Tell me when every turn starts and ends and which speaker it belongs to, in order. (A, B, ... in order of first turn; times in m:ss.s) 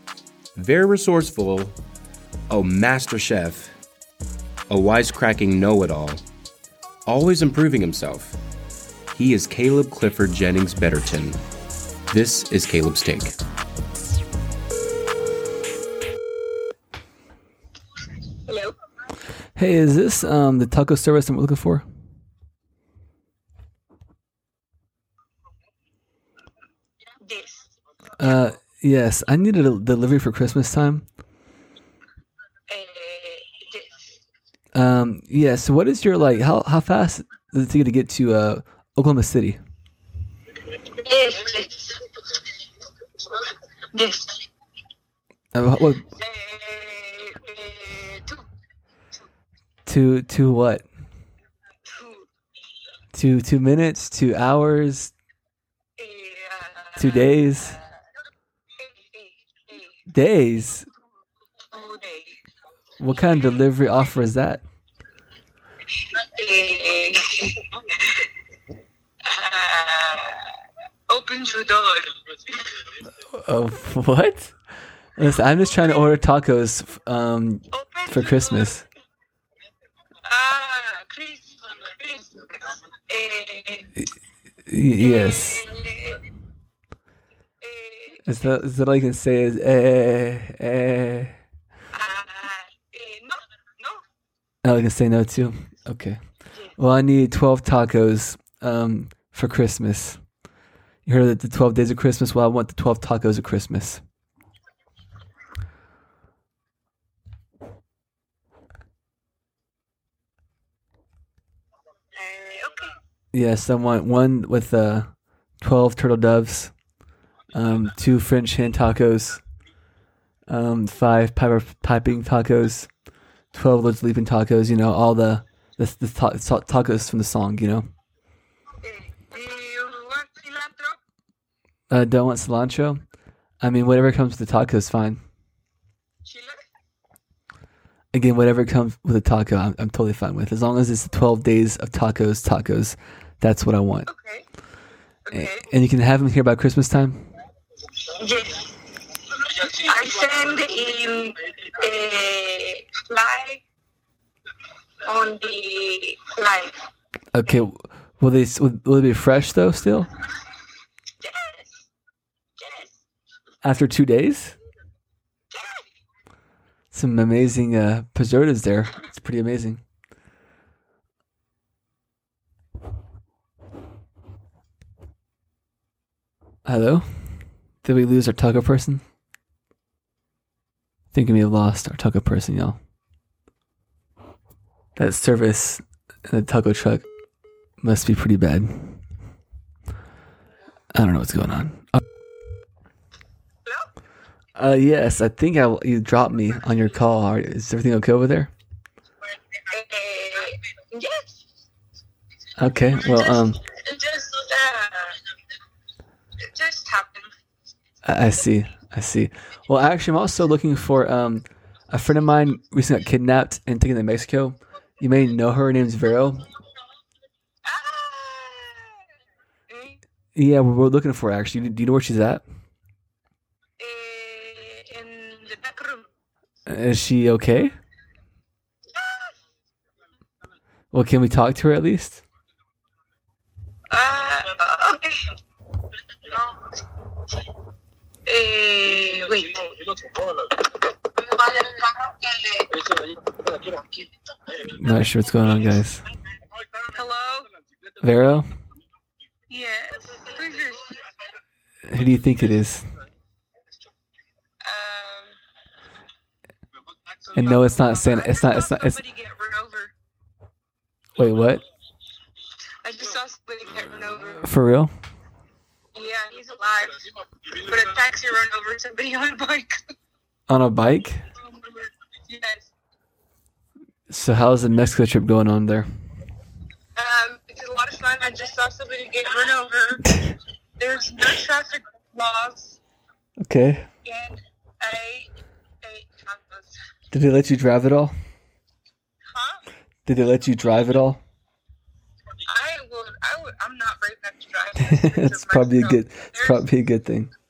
0:00.5-0:01.8 A
0:02.5-0:03.7 A
0:04.7-0:06.2 A
0:07.0-0:08.4 A
0:09.1-0:11.4 A
0:12.1-0:13.4 A
0:18.5-0:18.8 B
0:19.6-0:21.8 C
0:27.2-0:27.7 B
0:28.2-0:31.0 C
0:32.7-0:34.2 B
0:34.7-0:39.6 C
0:40.9-0:42.3 B
0:43.9-0:44.4 B
0:45.5-0:46.0 C
0:46.1-0:48.4 B
0:49.8-0:50.9 C
0:51.8-0:52.3 B
0:53.1-0:55.1 C
0:56.0-0:57.3 B
0:57.0-0:57.8 C
0:58.8-1:00.0 B
1:00.1-1:00.9 C
1:01.7-1:02.4 B
1:03.0-1:04.6 C
1:06.1-1:08.3 B
1:09.2-1:10.5 B
1:11.1-1:12.9 B
1:13.3-1:14.5 C
1:15.2-1:18.8 C
1:17.7-1:18.8 B
1:20.2-1:24.0 B
1:24.7-1:25.6 C
1:25.0-1:26.2 B
1:27.6-1:28.4 B
1:28.2-1:31.4 C
1:31.9-1:34.0 B
1:34.6-1:36.2 C
1:36.5-1:36.8 B
1:36.8-1:40.2 C
1:41.0-1:44.0 C
1:52.1-1:53.0 B
1:53.3-1:55.1 C
1:55.6-1:56.7 C
1:57.5-1:59.4 C
2:00.5-2:02.9 C
2:03.5-2:07.9 C
2:08.8-2:11.0 B
2:11.9-2:13.0 C
2:13.6-2:15.2 C
2:16.2-2:16.6 B
2:18.1-2:24.1 C
2:24.1-2:24.4 B
2:25.2-2:25.7 B
2:25.3-2:27.3 C
2:28.1-2:28.7 B
2:29.4-2:33.6 B
2:35.0-2:36.8 B
2:37.3-2:40.1 C
2:41.2-2:41.9 B
2:42.6-2:43.0 B
2:43.6-2:44.6 C
2:45.5-2:45.8 B
2:46.9-2:49.8 C
2:56.6-2:59.0 C
3:01.1-3:02.8 C
3:05.0-3:07.0 C
3:07.8-3:09.0 C
3:10.9-3:12.0 C
3:14.6-3:18.5 C
3:19.5-3:21.4 B
3:22.6-3:23.6 C
3:23.0-3:25.2 B
3:26.5-3:27.3 B
3:28.0-3:36.5 C
3:37.6-3:39.1 B
3:39.7-3:40.0 B
3:40.3-3:42.4 C
3:43.8-3:46.1 B
3:46.7-3:47.8 C
3:48.9-3:49.3 B
3:50.9-3:52.2 C
3:53.9-3:55.3 B
3:56.2-3:56.7 B
3:58.2-3:59.9 B
4:00.5-4:02.8 B
4:04.7-4:06.0 C
4:06.8-4:07.5 B
4:08.0-4:08.5 C
4:09.5-4:10.9 B
4:11.9-4:12.9 C
4:14.6-4:15.4 B
4:17.3-4:19.0 C
4:17.3-4:19.9 B
4:21.2-4:21.6 C
4:22.8-4:24.5 B
4:24.4-4:24.9 C
4:25.9-4:29.8 B
4:30.5-4:31.2 C
4:31.4-4:32.7 B
4:34.1-4:35.9 C
4:36.9-4:40.2 B
4:40.8-4:42.8 B
4:43.4-4:43.9 C
4:44.0-4:46.8 B
4:47.1-4:48.1 C
4:49.3-4:49.6 B
4:50.1-4:51.2 C
4:52.4-4:56.6 B
4:54.8-4:57.3 C